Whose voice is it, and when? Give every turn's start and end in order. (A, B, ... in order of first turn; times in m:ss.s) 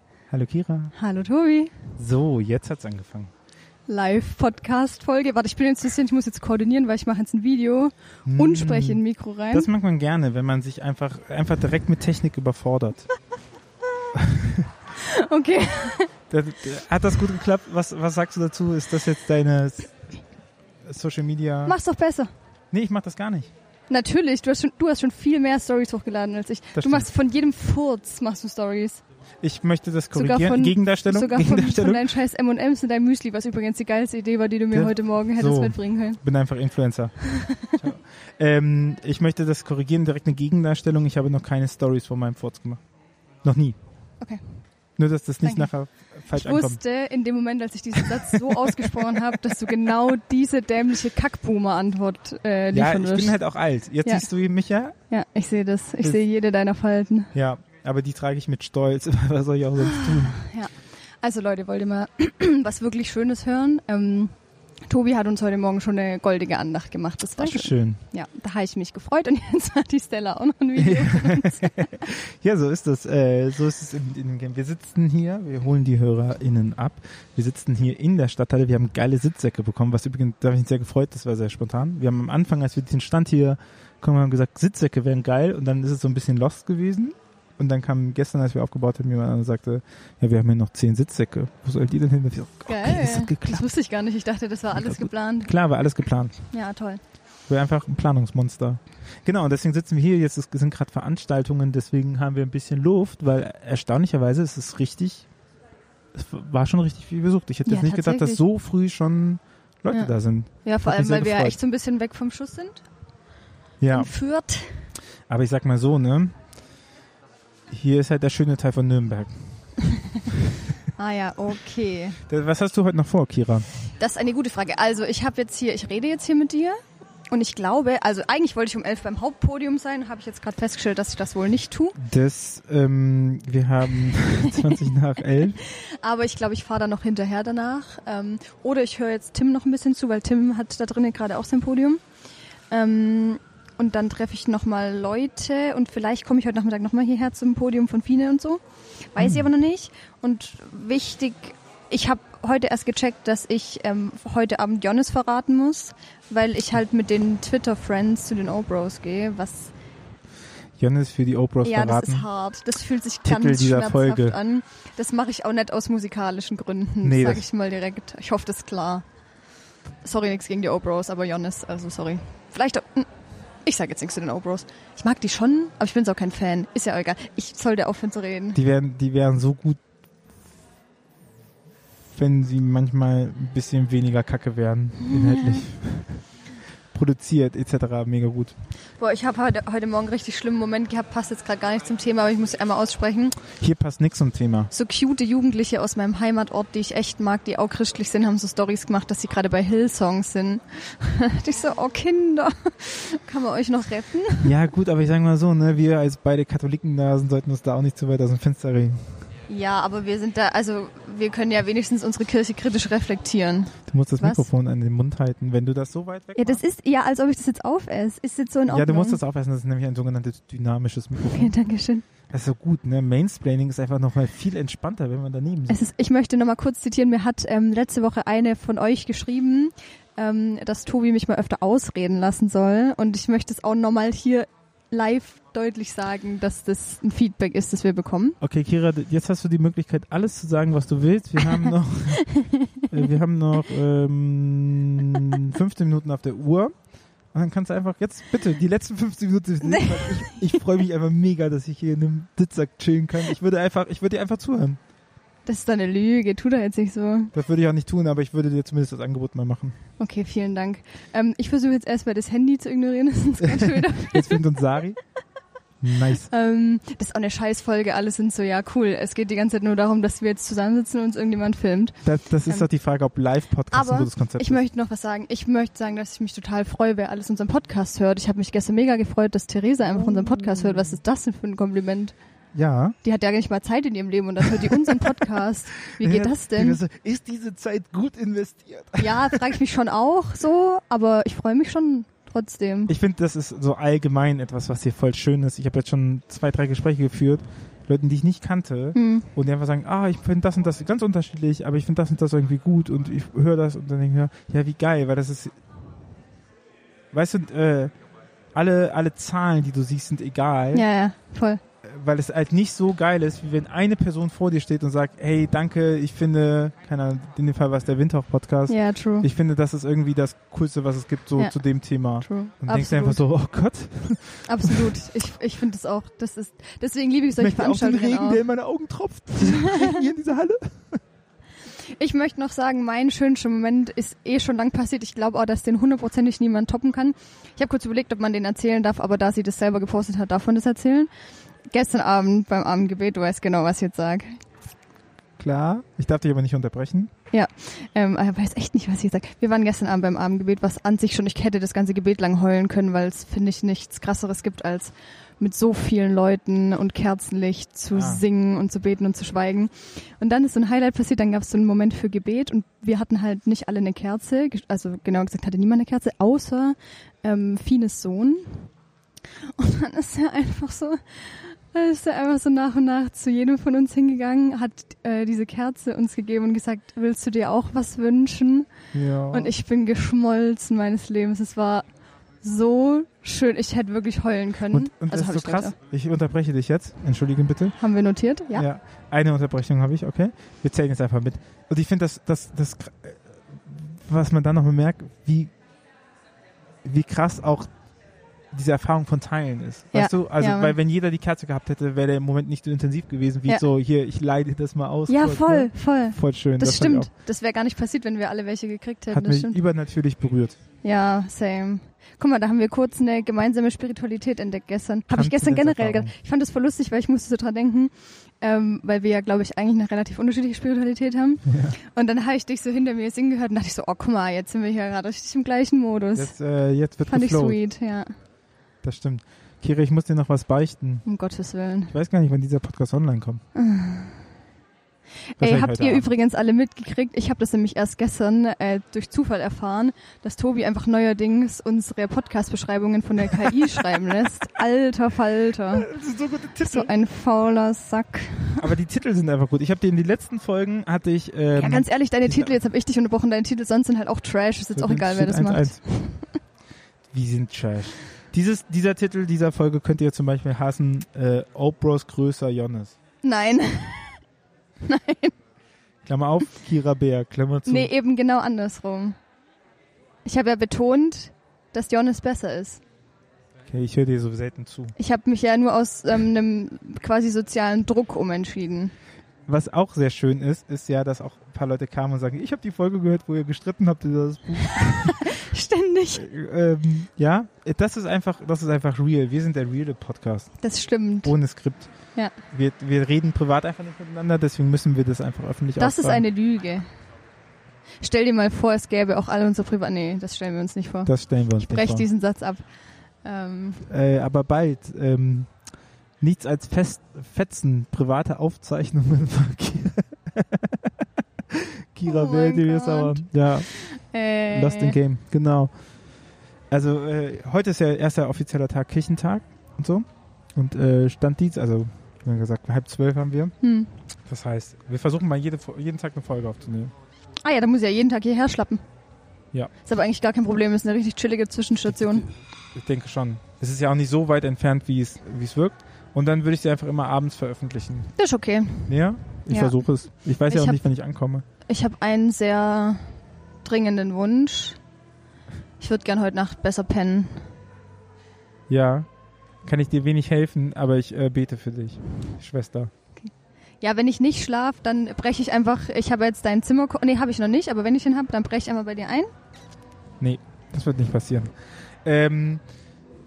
0:00.3-0:00.9 A
0:01.0-0:01.8 B
0:02.0-0:03.3 A
0:03.9-0:09.7 B
0:08.3-0:13.1 A
0:14.1-0:14.7 A
0:14.9-0:16.1 B
0:16.3-0:20.0 A
0:20.8-0:21.8 A
0:21.7-0:22.3 B
0:22.7-0:23.5 A
0:23.9-0:29.0 B
0:26.7-0:27.1 A
0:29.4-0:32.1 A
0:30.1-0:36.2 B
0:34.7-0:42.8 A
0:37.4-0:37.7 B
0:43.4-0:43.8 A
0:44.2-0:44.6 B
0:45.0-0:46.8 A
0:45.4-0:45.7 B
0:46.3-0:53.4 B
0:48.0-0:49.2 A
0:52.7-0:55.0 A
0:55.1-0:57.3 B
0:57.3-1:00.4 A
0:59.8-1:04.3 B
1:04.9-1:12.0 B
1:07.4-1:08.0 A
1:10.8-1:33.7 A
1:32.7-1:35.5 B
1:34.7-1:36.4 A
1:36.5-1:37.0 B
1:37.5-1:45.3 A
1:46.1-1:51.6 A
1:47.7-1:48.4 B
1:50.6-1:52.8 B
1:53.8-1:54.1 A
1:53.9-1:54.9 B
1:55.3-1:56.3 A
1:57.7-1:59.5 A
2:01.0-2:02.2 B
2:02.3-2:03.7 A
2:04.0-2:06.8 B
2:07.3-2:12.0 B
2:12.0-2:15.6 A
2:15.6-2:22.0 B
2:22.7-2:28.6 B
2:29.1-2:39.7 B
2:29.2-2:29.5 A
2:40.8-2:42.3 A
2:41.6-2:49.0 B
2:43.2-2:44.4 A
2:47.0-2:47.4 A
2:50.0-2:53.1 B
2:53.6-2:58.6 B
2:58.6-2:59.8 A
3:02.1-3:06.2 A
3:05.0-3:05.6 B
3:06.9-3:08.5 A
3:09.0-3:13.4 B
3:13.5-3:14.7 A
3:14.7-3:24.5 B
3:24.4-3:29.1 A
3:29.5-3:34.5 B
3:33.9-3:36.6 A
3:36.4-3:39.2 B
3:38.7-3:41.6 A
3:41.2-3:42.0 B
3:42.3-3:45.8 A
3:45.7-3:58.4 B
3:58.4-4:06.7 A
4:01.7-4:02.8 B
4:07.3-4:14.8 A
4:09.6-4:10.4 B
4:15.5-4:17.3 B
4:17.3-4:19.8 A
4:20.0-4:24.5 B
4:23.4-4:25.0 A
4:25.8-4:26.3 A
4:26.2-4:32.7 B
4:32.0-4:34.6 A
4:33.7-4:42.1 B
4:39.9-4:41.0 A
4:42.5-4:43.0 A
4:43.0-4:46.8 B
4:44.5-4:45.2 A
4:45.9-4:49.5 A
4:49.0-4:52.9 B
4:52.9-5:05.5 A
4:59.0-4:59.3 B
5:07.1-5:07.9 A
5:08.6-5:10.9 A
5:10.7-5:11.6 B
5:11.8-5:24.9 A
5:18.7-5:19.3 B
5:21.4-5:23.2 B
5:24.5-5:28.4 B
5:27.4-5:31.0 A
5:29.4-5:29.9 B
5:32.0-5:41.1 B
5:41.7-5:44.4 B
5:45.4-5:47.1 A
5:47.3-6:08.7 B
5:57.9-5:58.2 A
6:09.4-6:18.7 B
6:18.9-6:19.5 A
6:19.3-6:21.8 B
6:22.4-6:25.8 B
6:24.7-6:27.8 A
6:27.8-6:28.6 B
6:28.5-6:35.5 A
6:36.8-6:37.7 A
6:38.5-6:47.1 A
6:39.9-6:40.8 B
6:45.1-6:49.6 B
6:49.1-6:50.6 A
6:50.8-7:06.3 B
6:55.1-6:56.1 A
7:01.5-7:01.8 A
7:06.2-7:07.6 A
7:07.1-7:08.2 B
7:08.8-7:11.1 A
7:11.1-7:11.9 B
7:11.9-7:13.4 A
7:13.6-7:14.2 B
7:15.4-7:25.9 B
7:15.4-7:16.1 A
7:25.7-7:26.9 A
7:26.6-7:28.7 B
7:28.6-7:32.6 A
7:31.6-7:36.3 B
7:34.8-7:35.8 A
7:37.1-7:43.0 A
7:43.2-7:44.2 B
7:44.8-7:45.3 B
7:46.1-7:47.9 A
7:47.7-7:49.2 B
7:50.3-7:52.8 B
7:53.7-7:54.9 A
7:55.0-7:58.9 B
7:59.5-8:05.3 A
8:04.8-8:06.2 B
8:06.1-8:10.5 A
8:10.6-8:11.4 B
8:11.2-8:16.3 A
8:15.8-8:16.9 B
8:18.0-8:22.6 B
8:21.0-8:22.1 A
8:23.2-8:23.9 B
8:23.9-8:25.5 A
8:26.2-8:30.9 A
8:31.5-8:33.7 A
8:32.1-8:35.0 B
8:34.5-8:35.7 A
8:36.7-8:43.5 A
8:43.6-8:43.9 B
8:44.3-8:46.9 A
8:47.4-8:48.8 B
8:49.8-8:52.3 B
8:51.9-8:52.2 A
8:52.8-8:58.1 A
8:58.2-8:59.8 B
8:58.9-9:01.4 A
9:00.5-9:00.8 B
9:01.7-9:04.8 B
9:05.8-9:07.5 B
9:08.7-9:09.1 A
9:09.6-9:12.9 A
9:13.2-9:19.3 B
9:20.2-9:22.6 A